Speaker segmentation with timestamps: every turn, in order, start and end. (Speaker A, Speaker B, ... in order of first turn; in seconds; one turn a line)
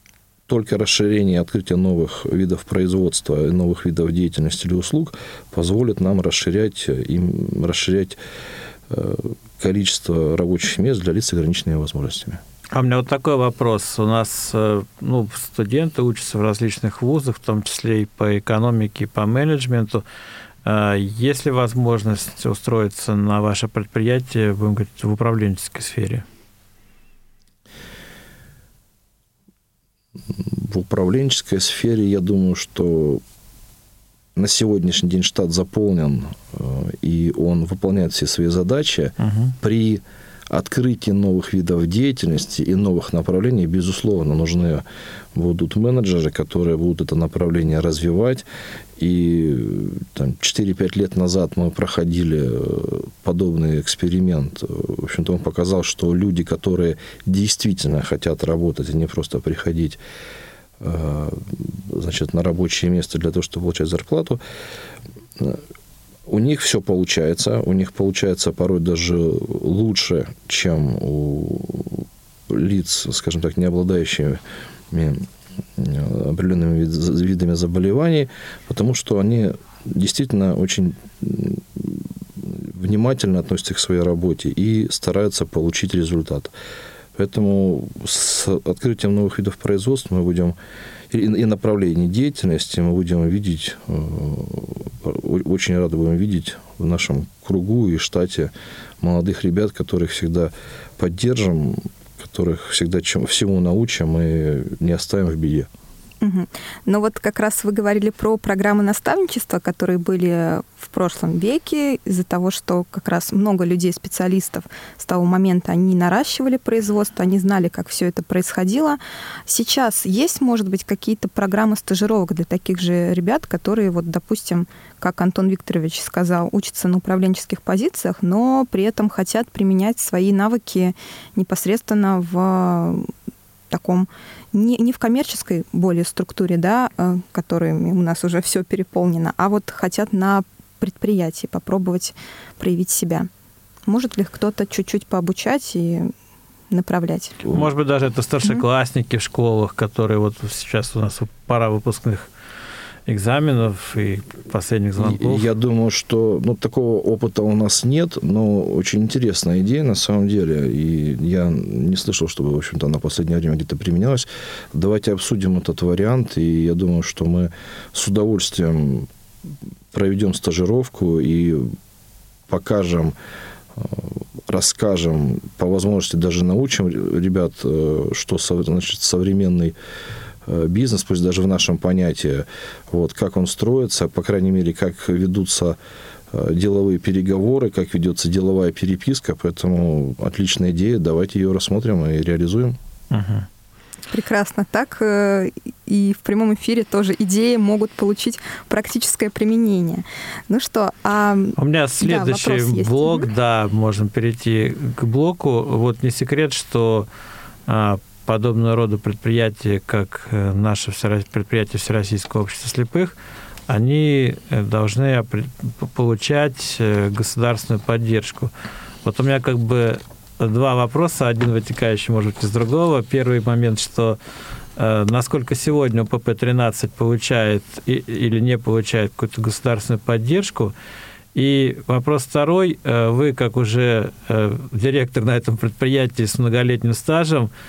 Speaker A: 0.5-8.2
Speaker A: 8.9-12.4
Speaker B: 12.7-20.0
Speaker B: 20.6-26.2
Speaker A: 30.4-33.2
Speaker A: 34.4-48.5
Speaker B: 39.2-39.5
Speaker A: 49.0-60.0
Speaker A: 60.8-64.4
Speaker A: 66.3-75.3
Speaker A: 75.8-86.5
Speaker A: 87.2-90.6
Speaker A: 91.1-105.7
Speaker C: 106.2-133.1
Speaker C: 133.7-143.3
Speaker C: 143.9-146.1
Speaker C: 146.7-147.4
Speaker B: 147.5-152.3
Speaker B: 153.1-155.5
Speaker A: 155.0-169.1
Speaker A: 169.9-171.8
Speaker A: 172.5-173.1
Speaker A: 173.8-179.8
Speaker A: 180.5-185.8
Speaker A: 186.3-192.8
Speaker B: 193.1-193.5
Speaker C: 194.1-203.3
Speaker B: 201.6-207.1
Speaker B: 207.7-213.2
Speaker B: 213.7-218.5
Speaker B: 219.0-224.2
Speaker B: 224.8-230.7
Speaker B: 231.3-237.5